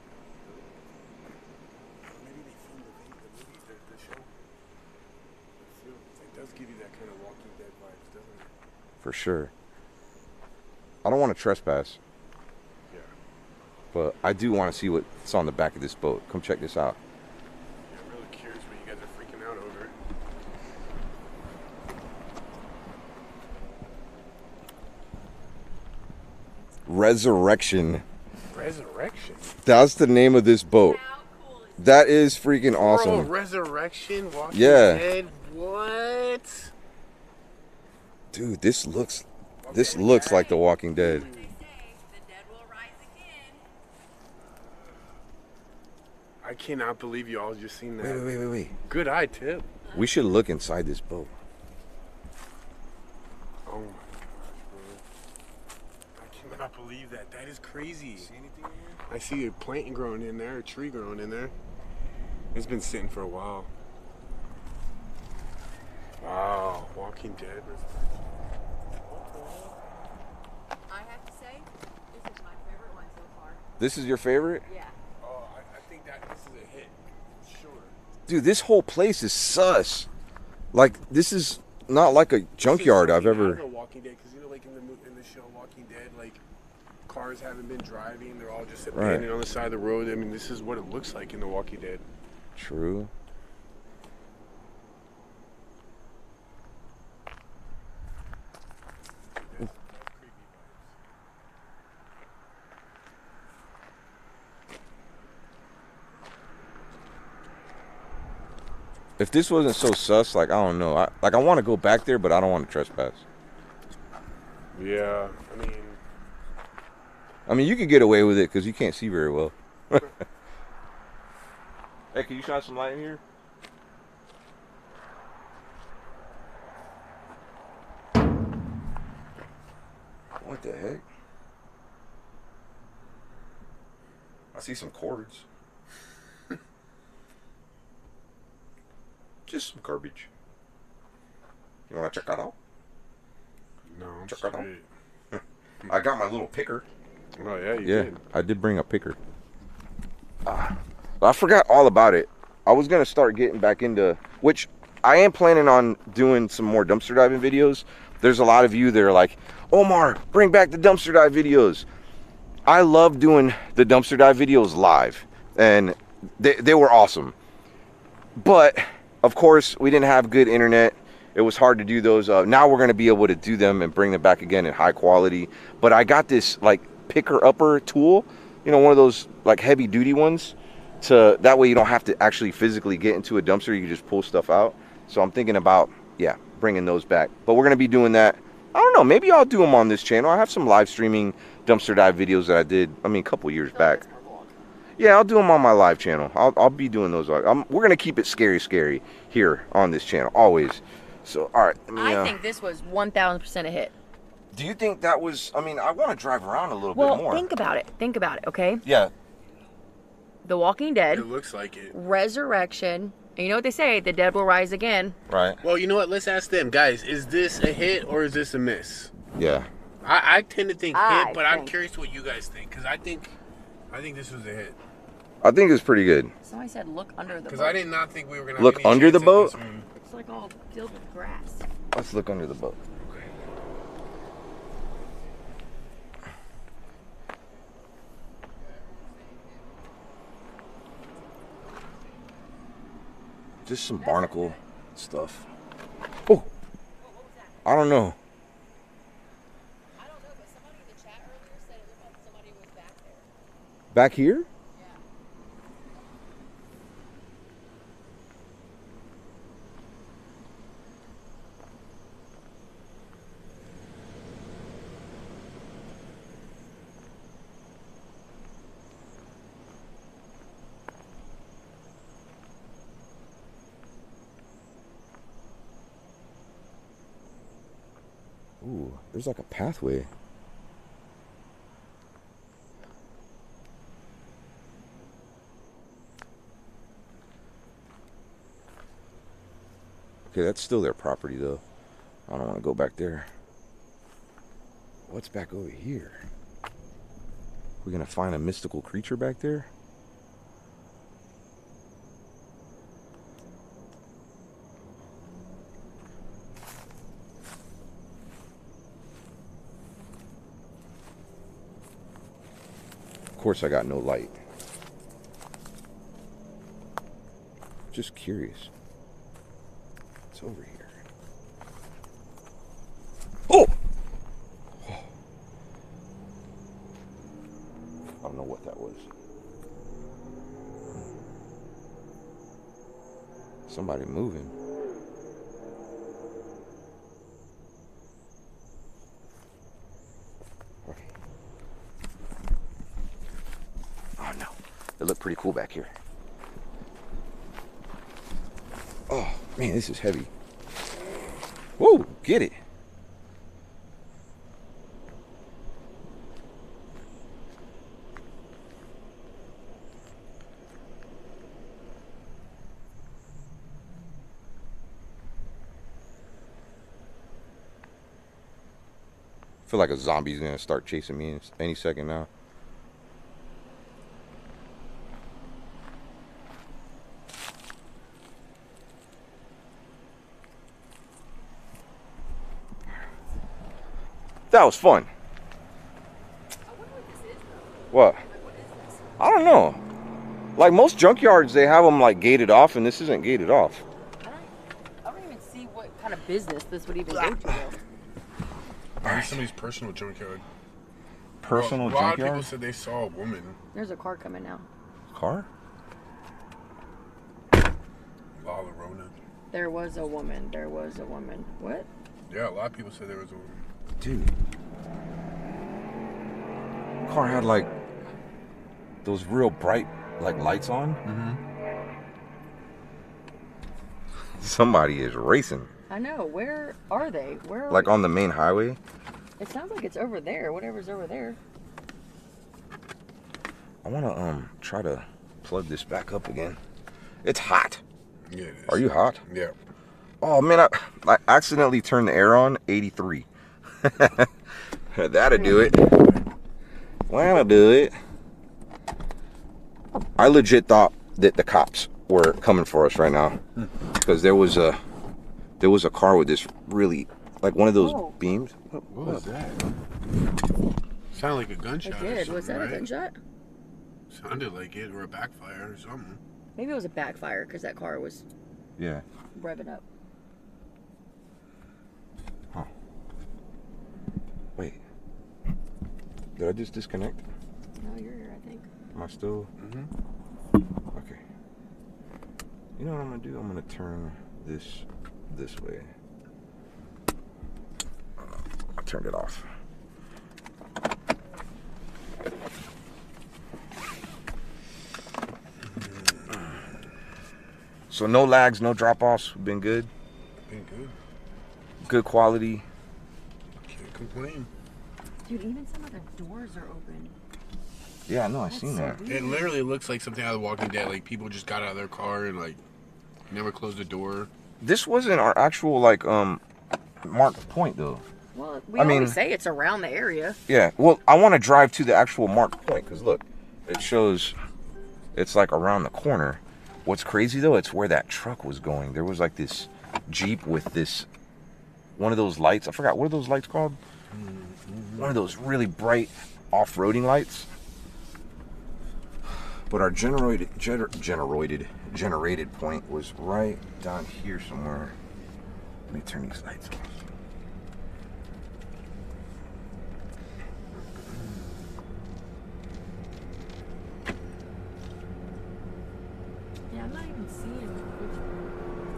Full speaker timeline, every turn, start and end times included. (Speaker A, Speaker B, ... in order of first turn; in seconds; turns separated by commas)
Speaker A: 2.0-4.3, Speaker A: 5.6-8.5, Speaker B: 9.0-9.5, Speaker B: 11.0-12.0, Speaker B: 13.9-17.0, Speaker A: 17.9-19.9, Speaker B: 26.9-28.0, Speaker A: 28.5-29.6, Speaker B: 29.6-31.0, Speaker C: 30.8-31.9, Speaker B: 31.8-33.3, Speaker A: 32.8-36.7, Speaker B: 34.5-35.0, Speaker B: 38.3-41.3, Speaker A: 39.6-41.5, Speaker C: 40.0-40.5, Speaker C: 41.1-43.6, Speaker A: 46.4-48.3, Speaker B: 48.0-48.7, Speaker A: 48.9-49.8, Speaker B: 49.9-51.4, Speaker A: 53.6-55.0, Speaker A: 56.1-58.3, Speaker B: 58.2-59.0, Speaker A: 59.1-61.5, Speaker A: 62.5-63.7, Speaker A: 66.2-68.2, Speaker A: 69.0-69.8, Speaker C: 70.9-73.6, Speaker B: 73.8-74.6, Speaker C: 74.6-75.0, Speaker A: 75.2-78.0, Speaker B: 78.3-80.1, Speaker B: 80.7-83.6, Speaker A: 82.6-86.4, Speaker A: 87.0-92.0, Speaker B: 88.9-89.3, Speaker B: 92.5-93.1, Speaker A: 99.4-100.9, Speaker B: 109.2-113.2, Speaker A: 114.7-116.0, Speaker B: 117.5-120.1, Speaker B: 122.1-123.2, Speaker B: 130.4-131.0, Speaker B: 134.5-135.4, Speaker B: 139.5-140.3, Speaker B: 141.9-142.5, Speaker A: 143.9-144.8, Speaker B: 144.3-144.7, Speaker B: 145.3-146.8, Speaker A: 147.4-148.2, Speaker B: 147.8-149.2, Speaker B: 150.4-161.8, Speaker B: 162.7-167.3, Speaker B: 168.4-194.0, Speaker C: 193.7-194.6, Speaker B: 195.0-202.4, Speaker C: 201.9-203.9, Speaker B: 204.5-207.5, Speaker C: 206.9-208.8, Speaker B: 208.8-209.1, Speaker C: 210.4-211.3, Speaker A: 211.1-211.9, Speaker C: 211.9-215.2, Speaker B: 215.3-215.6, Speaker A: 215.6-219.1, Speaker B: 219.3-219.7, Speaker A: 220.0-223.3, Speaker C: 220.9-221.7, Speaker A: 223.9-224.8, Speaker B: 225.4-226.3, Speaker C: 226.4-227.8, Speaker A: 227.3-229.9, Speaker B: 228.6-229.5, Speaker C: 230.0-231.7, Speaker B: 231.9-233.1, Speaker B: 243.6-245.5, Speaker C: 244.0-244.6, Speaker C: 247.0-247.7, Speaker B: 247.6-248.2, Speaker C: 250.0-253.2, Speaker B: 253.9-254.5, Speaker B: 278.6-280.1, Speaker B: 290.3-291.6, Speaker B: 292.3-293.3, Speaker B: 295.1-296.2, Speaker B: 297.8-299.7, Speaker B: 313.4-314.4, Speaker B: 317.9-318.7, Speaker B: 320.3-320.9, Speaker B: 323.5-323.7, Speaker B: 328.2-329.1, Speaker B: 333.7-334.5, Speaker B: 344.2-345.9, Speaker B: 349.1-350.3, Speaker B: 351.8-352.6, Speaker B: 369.7-372.3, Speaker B: 384.5-385.1, Speaker C: 386.7-389.2, Speaker B: 387.9-388.2, Speaker B: 389.2-389.8, Speaker B: 390.6-393.8, Speaker C: 394.2-394.5, Speaker C: 395.0-397.8, Speaker B: 399.0-399.4, Speaker A: 399.0-400.4, Speaker B: 401.4-402.5, Speaker A: 401.5-403.6, Speaker C: 403.7-404.7, Speaker B: 405.1-405.5, Speaker A: 408.4-409.1, Speaker C: 409.5-411.9, Speaker A: 412.3-413.6, Speaker B: 414.0-414.3, Speaker B: 417.1-417.7, Speaker B: 419.0-421.0, Speaker A: 421.0-421.4, Speaker B: 424.4-425.7, Speaker C: 425.9-428.0, Speaker B: 427.7-428.8, Speaker C: 429.4-431.4, Speaker B: 433.8-436.6, Speaker B: 437.2-437.8, Speaker A: 438.3-439.5, Speaker B: 438.7-439.2, Speaker B: 440.2-443.2, Speaker B: 443.8-444.4, Speaker B: 444.9-445.8, Speaker A: 445.3-446.2, Speaker B: 447.1-447.9, Speaker B: 450.2-453.4, Speaker B: 453.9-454.8, Speaker B: 455.6-459.3, Speaker C: 457.7-458.2, Speaker A: 458.9-459.6, Speaker A: 461.1-462.9, Speaker C: 461.8-463.2, Speaker A: 464.1-466.2, Speaker C: 466.6-468.2, Speaker B: 468.8-469.0, Speaker C: 469.3-469.8, Speaker B: 476.4-477.2, Speaker C: 477.8-478.7, Speaker B: 478.9-479.5, Speaker A: 479.6-479.9, Speaker B: 480.9-481.2, Speaker B: 482.8-485.9, Speaker B: 488.2-489.4, Speaker A: 495.7-496.4, Speaker B: 497.9-499.9, Speaker A: 500.5-500.9, Speaker B: 501.8-502.6, Speaker A: 503.6-504.5, Speaker C: 505.2-507.1, Speaker B: 508.1-509.0, Speaker C: 508.5-509.6, Speaker A: 509.1-512.6, Speaker A: 513.3-514.3, Speaker B: 514.6-516.4, Speaker B: 517.0-518.0, Speaker C: 518.3-520.4, Speaker B: 518.8-519.2, Speaker B: 520.5-524.3, Speaker B: 525.1-531.1, Speaker B: 532.0-533.8, Speaker A: 534.1-535.1, Speaker B: 535.0-537.5, Speaker B: 539.7-544.9, Speaker B: 545.9-546.9, Speaker A: 551.0-551.5, Speaker C: 556.7-558.5